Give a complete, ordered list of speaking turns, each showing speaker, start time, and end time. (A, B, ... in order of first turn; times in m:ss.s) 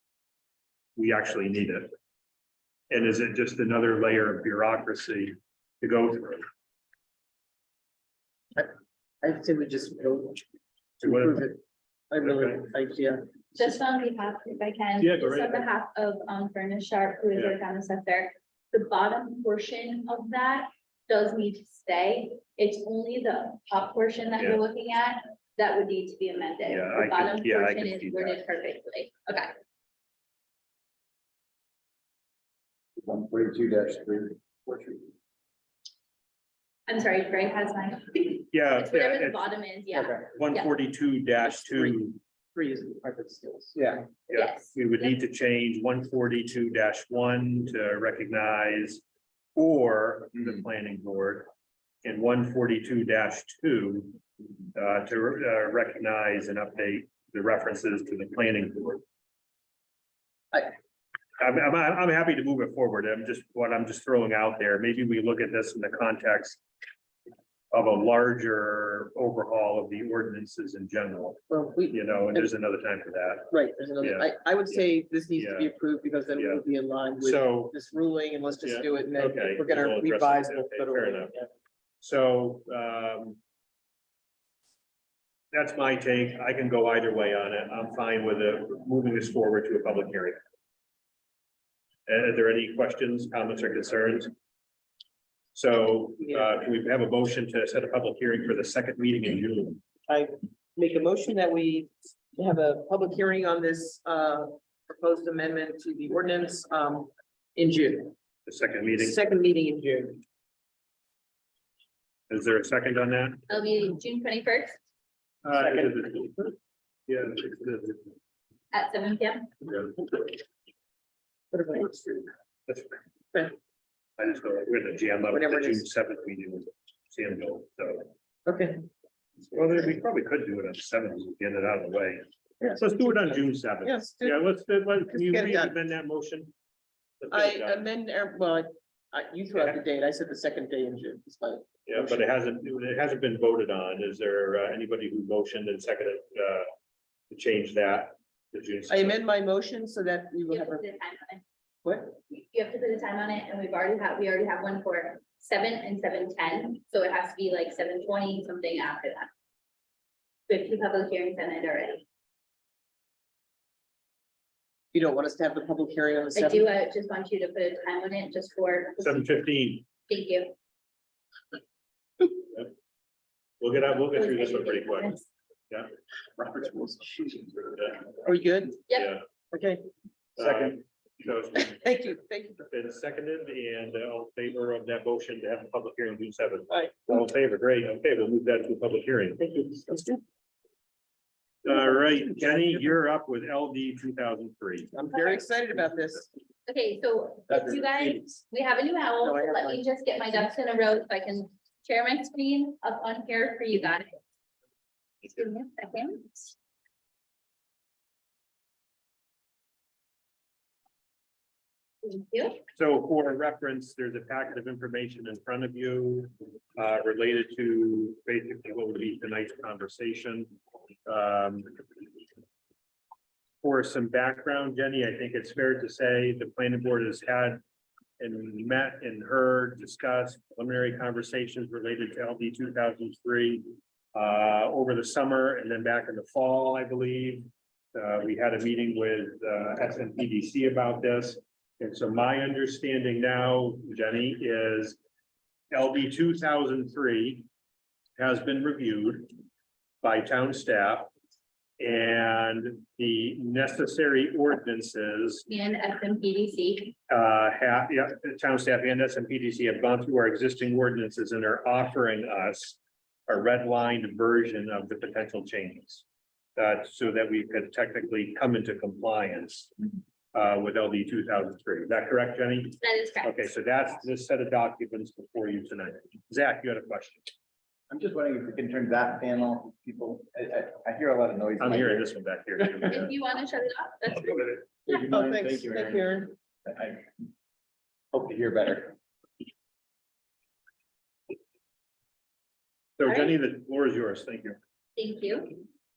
0:01.0-0:01.9 A
0:02.9-0:06.4 A
0:09.2-0:10.4 B
0:11.0-0:11.5 A
0:11.0-0:11.6 B
0:12.1-0:13.3 B
0:12.2-0:12.6 A
0:13.6-0:29.6 C
0:15.0-0:15.7 A
0:26.7-0:28.5 A
0:33.0-0:35.0 D
0:36.9-0:40.7 C
0:38.5-0:39.5 A
0:40.4-0:42.2 A
0:41.5-0:42.0 B
0:42.5-0:43.8 B
0:43.8-0:44.1 D
0:44.3-0:49.0 A
0:44.3-0:45.1 C
0:49.6-0:51.5 A
0:52.0-0:54.2 A
0:54.8-0:59.0 A
1:01.4-1:06.6 A
1:07.7-1:14.3 A
1:11.5-1:12.5 B
1:13.5-1:21.5 B
1:15.4-1:15.7 A
1:16.4-1:16.6 A
1:17.2-1:17.8 A
1:18.6-1:21.4 A
1:22.0-1:23.4 A
1:25.5-1:30.4 A
1:32.1-1:34.3 A
1:35.5-1:39.8 A
1:40.1-1:48.1 B
1:48.5-1:49.2 A
1:49.0-1:50.2 B
1:52.3-1:53.4 A
1:53.5-1:54.8 C
1:55.4-1:56.6 A
1:57.1-1:58.1 A
1:58.7-1:59.5 C
2:01.5-2:02.3 B
2:02.7-2:03.0 A
2:04.2-2:08.1 A
2:05.3-2:05.8 B
2:08.5-2:08.9 B
2:09.5-2:12.2 A
2:12.6-2:14.4 B
2:12.8-2:16.5 A
2:15.1-2:15.8 B
2:17.2-2:17.9 A
2:17.3-2:22.2 B
2:19.6-2:19.8 A
2:21.9-2:26.7 A
2:27.3-2:29.2 A
2:28.9-2:30.8 B
2:30.5-2:31.4 C
2:31.8-2:32.2 B
2:32.3-2:39.3 C
2:40.5-2:42.0 C
2:44.9-2:46.7 B
2:46.4-2:49.4 C
2:49.0-2:49.9 A
2:50.1-2:50.5 C
2:53.6-2:55.2 A
2:54.2-2:55.3 C
2:56.4-2:57.5 B
2:58.2-2:58.8 B
2:58.9-2:59.2 C
2:59.0-2:59.2 A
2:59.5-2:59.8 B
3:00.4-3:01.9 A
3:01.8-3:02.6 B
3:02.7-3:09.6 A
3:06.7-3:07.1 B
3:09.4-3:10.2 B
3:11.6-3:14.9 A
3:14.9-3:16.3 B
3:15.1-3:15.5 C
3:16.7-3:24.2 C
3:19.2-3:19.8 B
3:25.2-3:26.6 C
3:32.0-3:32.6 C
3:32.8-3:40.5 A
3:41.1-3:41.8 A
3:43.6-3:47.6 A
3:48.2-4:05.0 A
4:05.7-4:07.5 A
4:08.2-4:09.3 A
4:10.0-4:11.1 A
4:11.8-4:15.5 A
4:15.5-4:17.0 C
4:17.1-4:26.0 A
4:26.6-4:29.7 A
4:30.3-4:37.3 A
4:32.8-4:33.4 C
4:37.9-4:42.0 D
4:41.6-4:43.1 A
4:42.9-4:44.6 C
4:44.9-4:47.2 D
4:44.9-4:46.3 B
4:48.1-4:49.0 D
4:53.0-4:54.6 A
4:53.0-4:53.3 C
4:55.0-4:55.6 C